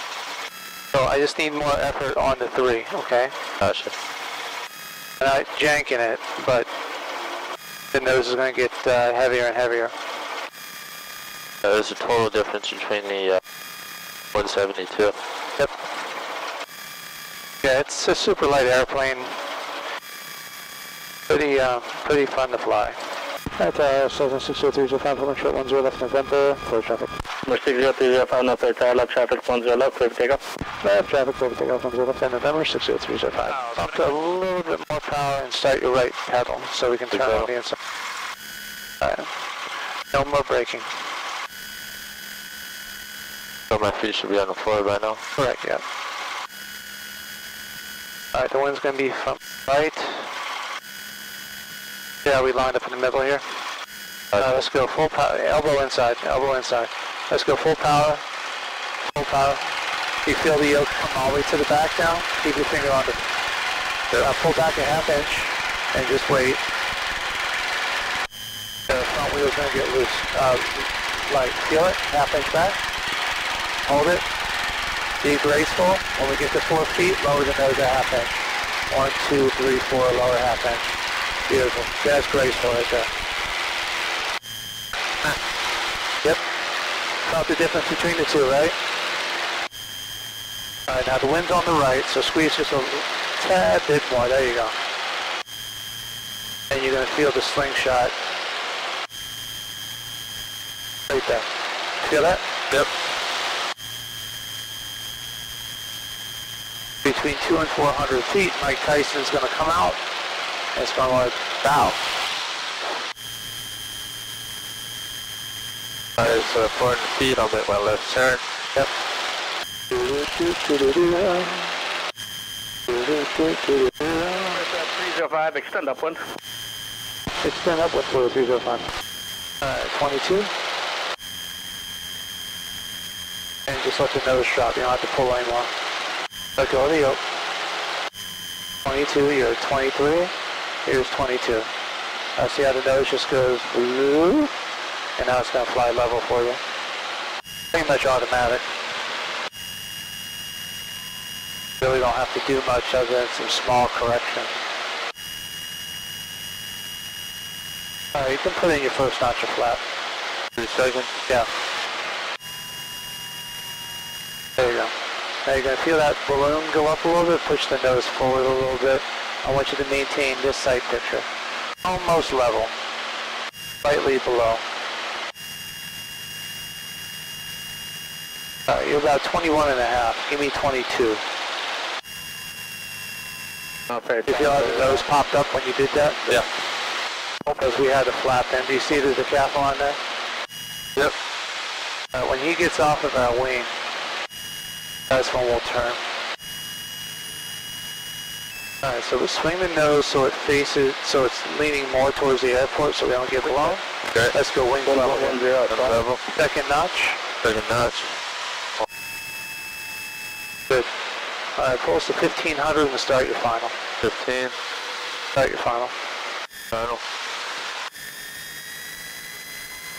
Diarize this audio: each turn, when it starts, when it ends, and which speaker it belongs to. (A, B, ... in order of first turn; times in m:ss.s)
0:00.9-0:03.3 A
0:03.6-0:03.9 B
0:05.2-0:06.7 A
0:07.9-0:09.9 A
0:11.6-0:13.4 B
0:14.3-0:15.2 B
0:17.6-0:19.3 A
0:21.3-0:23.0 A
0:23.6-0:27.1 A
0:27.5-0:30.4 C
0:30.8-0:37.8 A
0:33.5-0:34.1 C
0:37.1-0:37.5 B
0:39.0-0:39.3 A
0:40.1-0:40.9 A
0:43.7-0:45.2 B
0:45.4-0:45.8 A
0:48.3-0:50.3 A
0:52.2-0:53.4 A
0:54.4-0:58.2 A
0:59.1-0:59.7 A
1:00.2-1:03.2 A
1:04.1-1:06.6 A
1:08.9-1:12.8 A
1:13.8-1:14.2 A
1:15.2-1:18.3 A
1:18.9-1:20.8 A
1:21.5-1:23.1 A
1:27.2-1:28.7 A
1:30.9-1:34.8 A
1:36.7-1:38.1 A
1:41.1-1:41.4 A
1:42.0-1:42.4 A
1:47.0-1:50.0 A
1:50.7-1:52.0 A
1:56.2-1:58.4 B
1:59.9-2:01.8 A
2:02.9-2:04.6 A
2:04.2-2:06.2 C
2:07.4-2:08.8 A
2:09.6-2:10.5 A
2:13.7-2:15.7 A
2:16.6-2:17.2 A
2:18.8-2:20.3 A
2:20.8-2:21.7 A
2:22.4-2:24.5 A
2:25.2-2:26.6 A
2:27.7-2:28.6 A
2:31.8-2:34.5 A
2:38.1-2:39.8 A
2:40.6-2:41.1 B
2:44.6-2:44.9 A
2:45.4-2:51.2 A
2:51.8-2:52.7 A
2:53.8-2:54.6 A
2:58.7-3:01.2 A
3:03.9-3:05.0 C
3:04.3-3:06.4 A
3:07.4-3:10.0 A
3:12.1-3:13.7 A
3:15.1-3:16.0 A
3:18.8-3:23.8 A
3:23.4-3:23.8 C
3:24.3-3:25.4 A
3:24.8-3:26.0 C
3:25.7-3:26.2 B
3:26.4-3:27.2 A
3:27.4-3:28.1 B
3:31.6-3:33.7 A
3:34.0-3:34.5 B
3:35.3-3:35.9 A
3:36.7-3:37.0 B